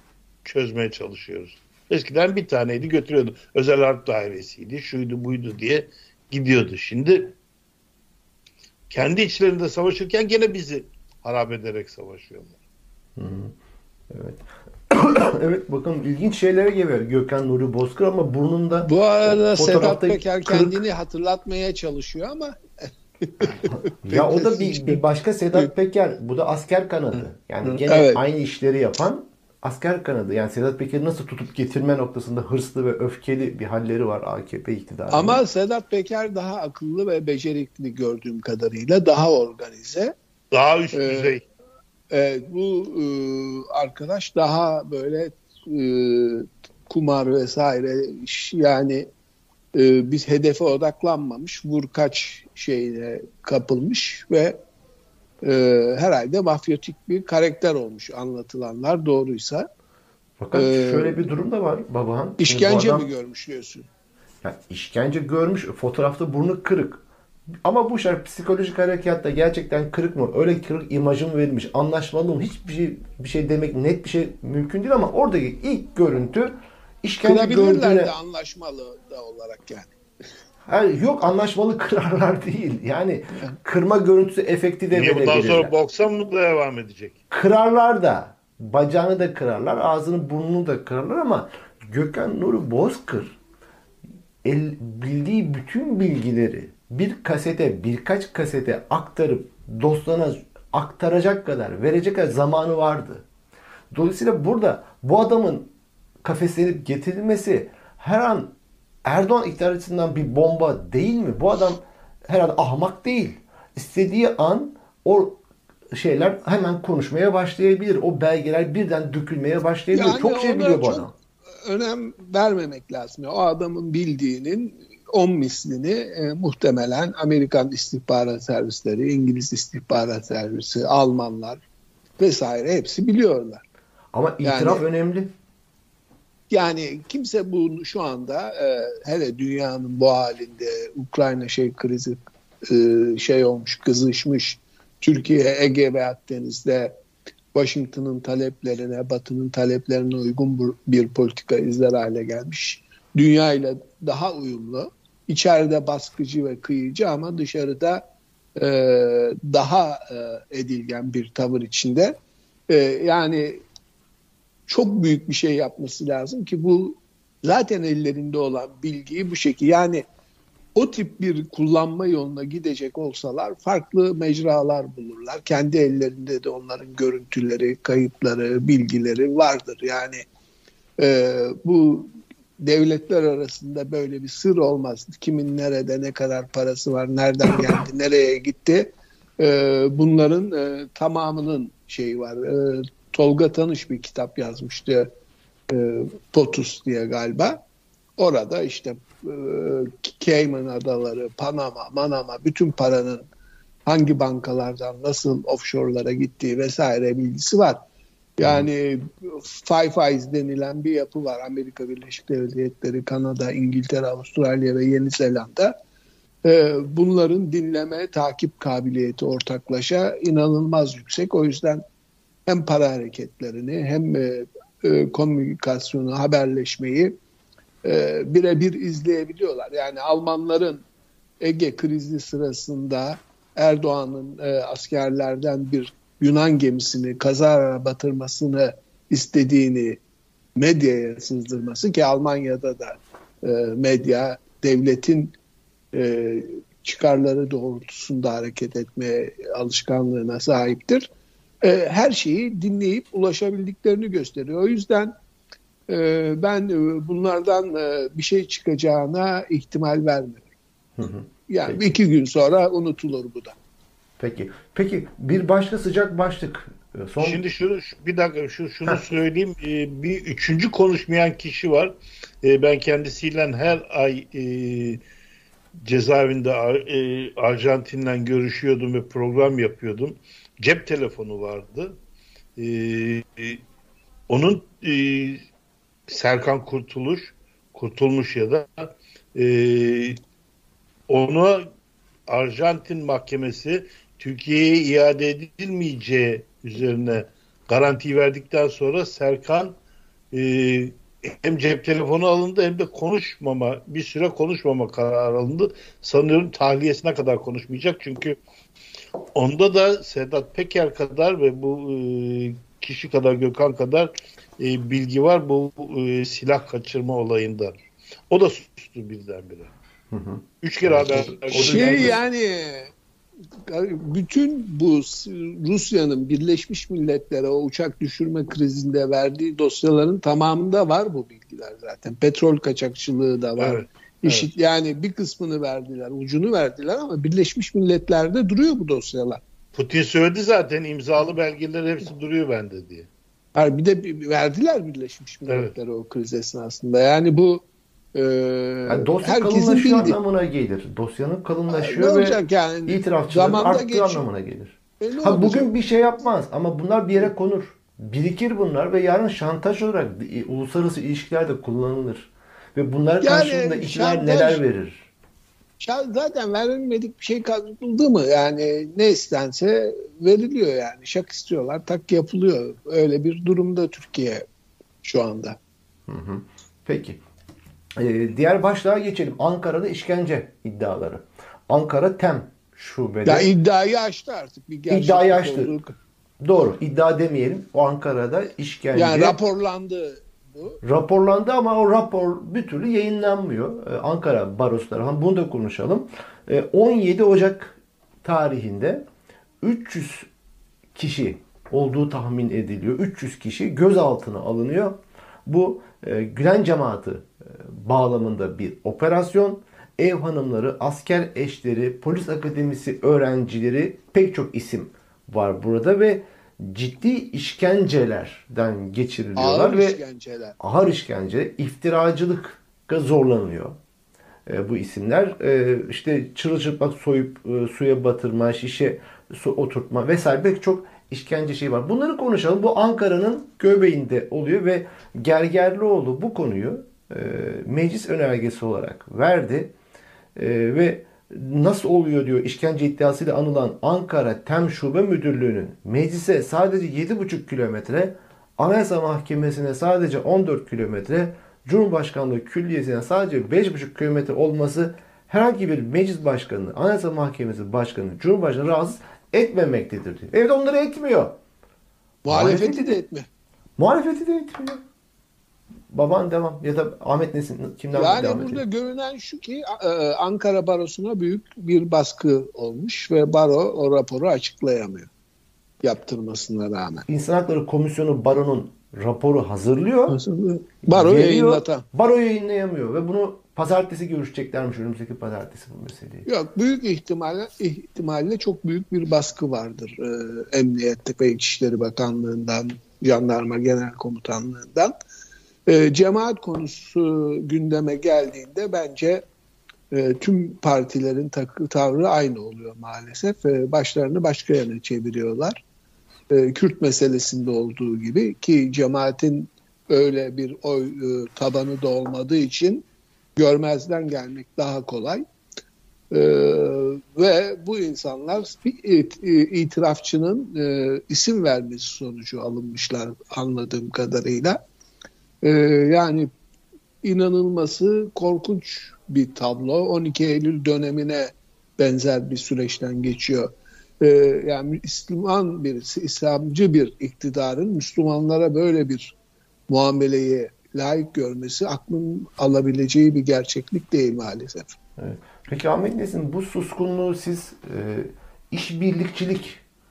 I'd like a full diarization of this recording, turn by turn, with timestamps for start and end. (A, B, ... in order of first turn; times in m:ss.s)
0:00.4-0:07.4 A
0:08.9-0:12.6 A
0:13.2-0:13.6 B
0:14.1-0:20.8 B
0:18.8-0:22.6 C
0:23.2-0:25.0 C
0:23.7-0:35.4 B
0:27.6-0:28.2 C
0:35.1-0:40.2 C
0:40.5-0:41.4 A
0:40.9-0:41.4 C
0:42.1-0:49.1 C
0:49.7-0:54.6 C
0:55.4-0:59.7 C
1:00.4-1:03.1 B
1:00.5-1:01.2 C
1:02.4-1:03.9 C
1:04.4-1:07.0 B
1:07.6-1:18.1 B
1:17.2-1:19.9 C
1:20.7-1:25.7 B
1:24.9-1:27.2 A
1:27.3-1:33.4 B
1:34.4-1:43.2 B
1:43.9-1:45.7 B
1:46.2-1:48.6 B
1:49.1-1:55.4 B
1:55.9-2:01.1 B
1:59.9-2:01.1 C
2:01.6-2:11.6 C
2:12.2-2:13.6 C
2:14.1-2:15.3 B
2:14.4-2:14.8 C
2:16.5-2:27.0 C
2:27.5-2:38.0 C
2:38.6-2:42.2 C
2:42.7-2:43.6 C
2:44.7-2:50.0 C
2:50.8-3:00.3 C
3:01.0-3:15.1 C
3:15.7-3:17.6 C
3:18.2-3:23.2 C
3:23.9-3:27.8 C
3:28.4-3:35.8 C
3:36.4-3:41.8 C
3:42.5-3:47.2 C
3:47.8-3:50.8 C
3:51.4-4:00.0 C
4:00.6-4:05.4 C
4:05.9-4:11.1 C
4:11.6-4:15.1 C
4:15.9-4:20.5 C
4:21.0-4:22.0 B
4:21.5-4:23.6 C
4:24.2-4:27.4 B
4:27.2-4:35.0 A
4:35.8-4:42.0 A
4:42.6-4:43.6 A
4:44.3-4:45.5 A
4:46.1-4:50.2 A
4:51.1-4:51.7 A
4:52.3-4:59.8 A
5:00.3-5:08.4 A
5:09.4-5:17.7 A
5:18.3-5:19.7 A
5:20.1-5:22.2 B
5:20.6-5:22.2 A
5:21.5-5:22.9 C
5:23.7-5:39.4 C
5:33.6-5:34.5 A
5:39.8-5:43.1 A
5:43.6-5:50.2 C
5:45.5-5:45.7 A
5:48.9-6:05.1 B
5:51.7-5:54.3 C
5:55.0-5:55.7 C
6:03.2-6:04.6 C
6:05.8-6:14.4 C
6:15.0-6:15.6 C
6:16.1-6:17.2 B
6:18.0-6:23.5 B
6:23.3-6:26.0 C
6:24.9-6:25.8 B
6:26.4-6:29.4 B
6:28.9-6:30.8 C
6:30.8-6:39.1 B
6:39.6-6:40.3 B
6:41.0-7:00.0 B
6:59.4-7:00.6 C
7:00.6-7:03.8 B
7:04.5-7:19.7 B
7:20.4-7:41.4 B
7:42.2-7:43.3 C
7:42.3-7:43.0 B
7:43.8-7:44.8 B
7:45.9-7:48.6 B
7:47.9-7:55.1 C
7:55.8-7:57.1 C
7:57.1-8:00.2 B
8:00.1-8:01.9 C
8:00.8-8:06.3 B
8:06.3-8:14.9 C
8:15.7-8:19.2 C
8:19.9-8:25.6 C
8:26.3-8:32.9 C
8:33.4-8:35.2 C
8:36.1-8:44.6 C
8:45.4-8:46.3 C
8:47.0-8:59.2 C
8:59.7-9:04.8 C
9:05.0-9:09.6 B